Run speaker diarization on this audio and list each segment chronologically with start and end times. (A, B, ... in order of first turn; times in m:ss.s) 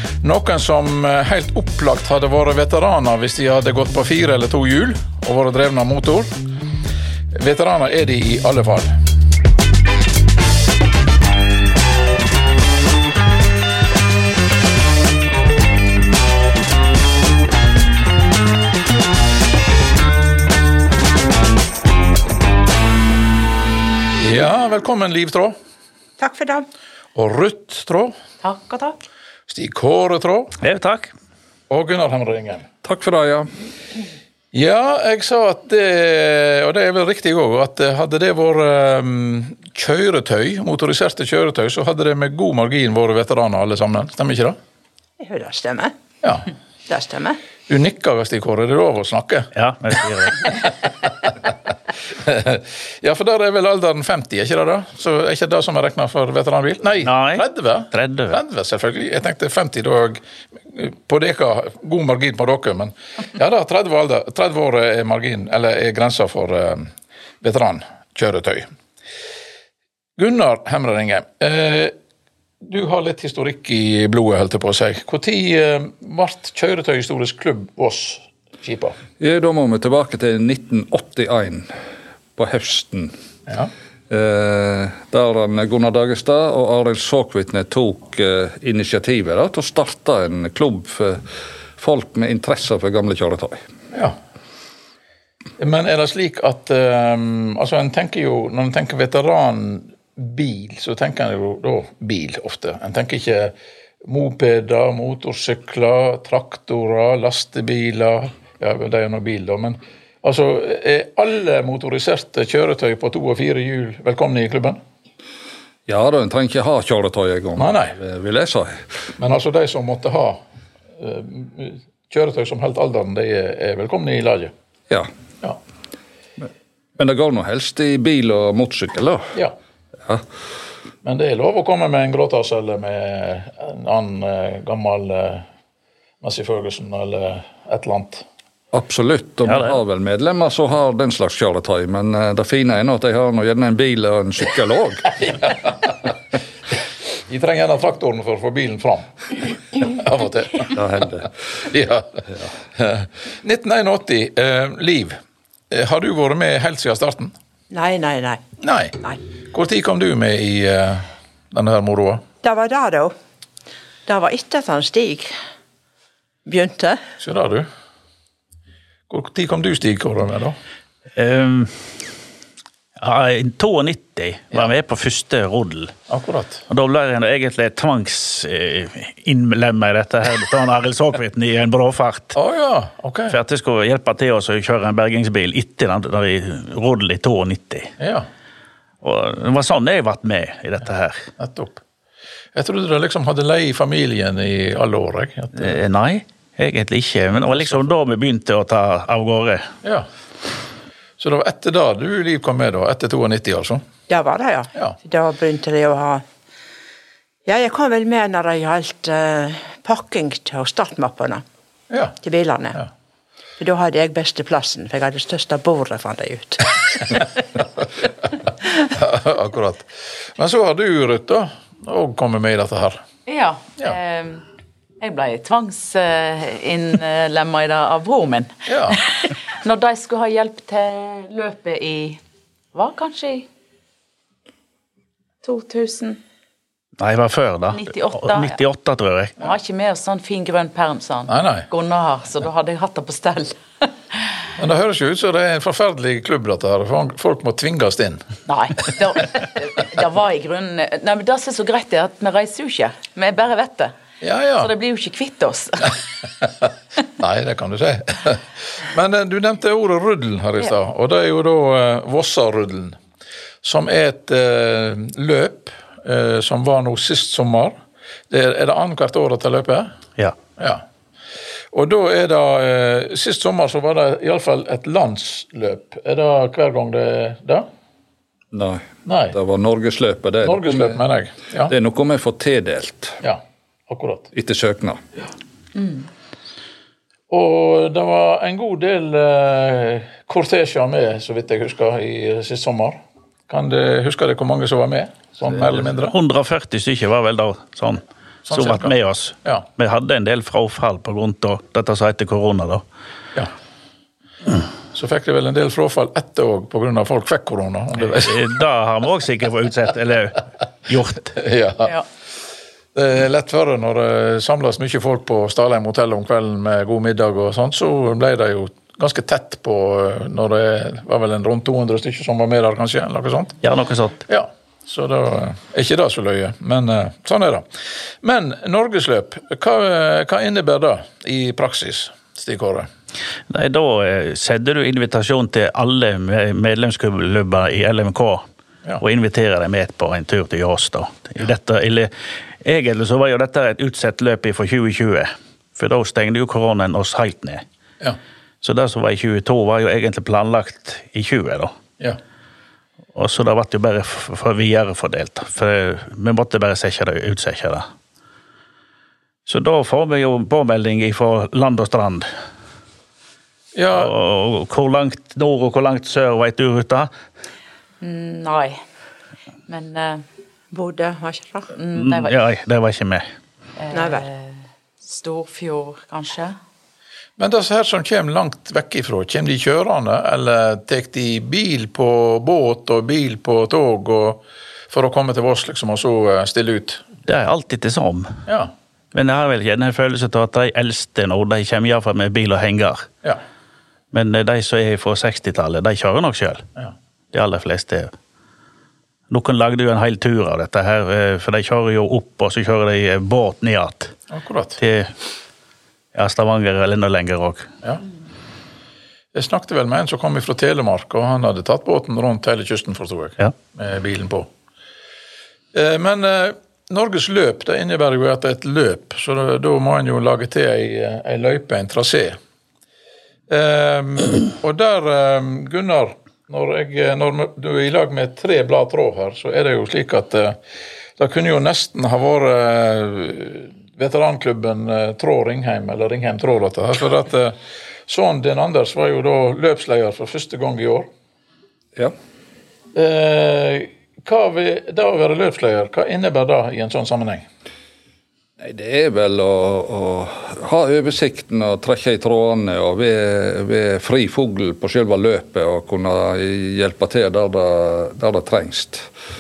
0:00.2-0:06.4 A
0:07.3-0:09.0 A
0:24.2-0:25.6 A
0:26.2-0:26.7 B
0:27.1-0:28.1 A
0:28.4-0:29.0 C
0:29.5-0:30.6 A
0:30.6-0:31.1 D
0:31.7-0:32.7 A
0:32.8-0:33.5 E
0:34.5-0:44.6 A
0:45.2-0:45.9 B
0:46.2-0:46.5 A
0:46.9-0:47.4 B
0:47.7-0:49.5 A
0:49.5-0:50.6 D
0:52.2-1:06.9 A
0:57.0-0:58.4 D
1:07.4-1:08.7 A
1:10.2-1:11.9 A
1:12.6-1:19.0 A
1:19.2-1:21.7 E
1:22.4-1:23.1 E
1:24.1-1:33.6 E
1:35.6-1:54.8 A
1:55.9-1:58.9 E
1:57.6-1:57.9 A
1:59.2-2:00.4 A
2:01.0-2:04.5 A
2:07.0-2:09.3 E
2:11.0-2:15.5 A
2:16.2-2:18.2 A
2:18.7-2:25.2 E
2:25.3-2:25.7 A
2:27.3-2:30.8 A
2:30.7-2:31.4 E
2:31.6-2:35.2 A
2:35.7-2:37.3 A
2:37.7-2:38.4 B
2:38.6-2:39.0 A
2:39.5-2:42.2 A
2:42.4-2:43.1 B
2:44.1-2:45.3 B
2:46.5-2:47.0 B
2:47.2-2:47.7 A
2:49.1-2:50.6 A
2:51.2-2:51.9 D
2:53.0-2:55.9 D
2:56.1-2:56.6 A
2:56.7-3:02.4 D
3:02.3-3:03.4 A
3:03.3-3:07.9 D
3:08.0-3:08.3 A
3:09.0-3:11.3 D
3:11.4-3:11.8 A
3:12.5-3:15.8 A
3:15.6-3:19.7 D
3:21.2-3:23.8 A
3:24.1-3:26.2 B
3:27.5-3:31.4 B
3:31.9-3:32.2 A
3:32.2-3:32.8 B
3:33.6-3:37.4 B
3:38.9-3:43.0 A
3:43.2-3:44.4 C
3:45.0-3:52.2 C
3:48.7-3:49.0 A
3:52.7-3:53.5 C
3:55.4-3:56.2 C
3:57.0-3:59.3 D
3:57.7-3:58.6 C
3:59.4-4:04.2 C
4:01.3-4:01.7 A
4:04.6-4:08.2 A
4:08.5-4:13.9 C
4:14.2-4:14.7 A
4:14.6-4:16.0 C
4:17.2-4:23.0 A
4:23.6-4:27.8 A
4:28.3-4:29.9 A
4:30.6-4:30.8 A
4:31.7-4:37.7 A
4:38.5-4:41.0 E
4:39.1-4:39.4 A
4:40.4-4:41.7 A
4:41.7-4:43.2 E
4:43.2-4:44.3 A
4:44.3-4:45.0 E
4:47.3-4:56.2 A
4:55.6-5:02.8 D
4:58.5-4:58.9 A
5:04.9-5:08.4 A
5:08.0-5:11.4 D
5:11.4-5:11.9 A
5:13.0-5:23.6 A
5:23.6-5:24.2 D
5:24.3-5:27.7 A
5:28.2-5:32.9 A
5:33.5-5:38.4 D
5:39.0-5:42.1 D
5:42.6-5:47.6 D
5:48.6-5:51.7 D
5:53.1-5:57.9 D
5:59.5-6:02.3 D
6:03.8-6:04.1 A
6:03.9-6:07.1 D
6:08.0-6:08.8 C
6:09.7-6:10.2 C
6:10.7-6:11.7 B
6:11.7-6:12.4 C
6:12.0-6:13.3 D
6:13.8-6:16.6 C
6:13.9-6:14.3 B
6:17.4-6:27.1 A
6:27.3-6:28.4 D
6:29.1-6:33.1 D
6:34.1-6:36.7 D
6:37.3-6:38.1 D
6:39.3-6:44.2 D
6:44.3-6:44.8 A
6:44.8-6:45.1 D
6:46.1-6:47.7 D
6:49.3-6:54.5 A
6:55.7-7:02.4 A
7:03.5-7:10.6 A
7:11.2-7:21.1 A
7:22.9-7:27.5 A
7:28.6-7:39.1 E